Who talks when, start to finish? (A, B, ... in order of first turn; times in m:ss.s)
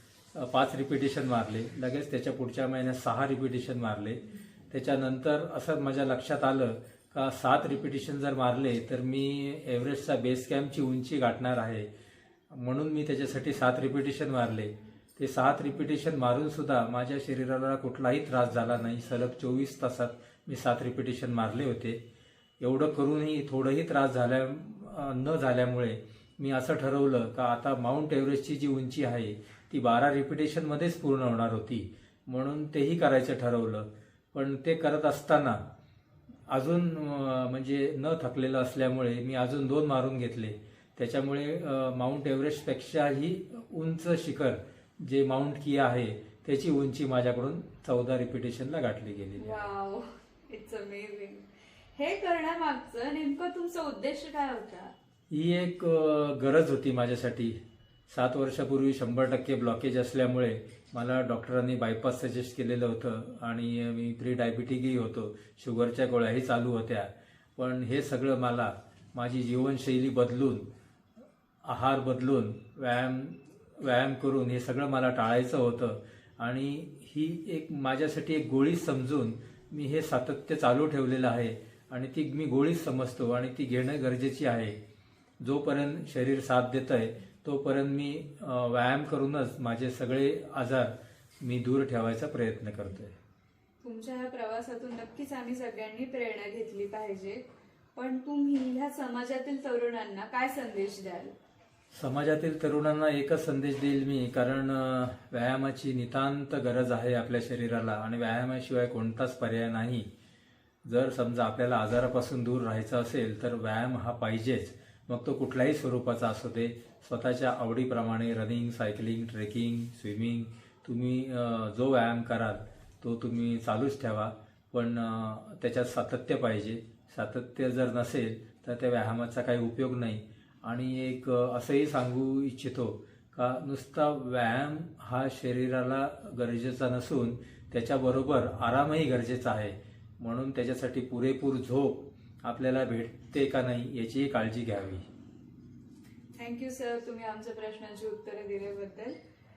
0:00.3-0:11.9 A
0:12.5-0:22.0 A
0:22.6-0:35.6 A
0:36.5-0:49.7 A
0:49.4-0:54.9 B
0:55.3-0:57.6 A
0:58.1-1:10.7 A
1:11.6-1:24.8 A
1:25.4-1:33.1 A
1:33.8-1:37.4 B
1:37.9-1:41.3 B
1:41.9-1:50.1 A
1:50.8-2:25.0 A
2:26.4-2:29.2 B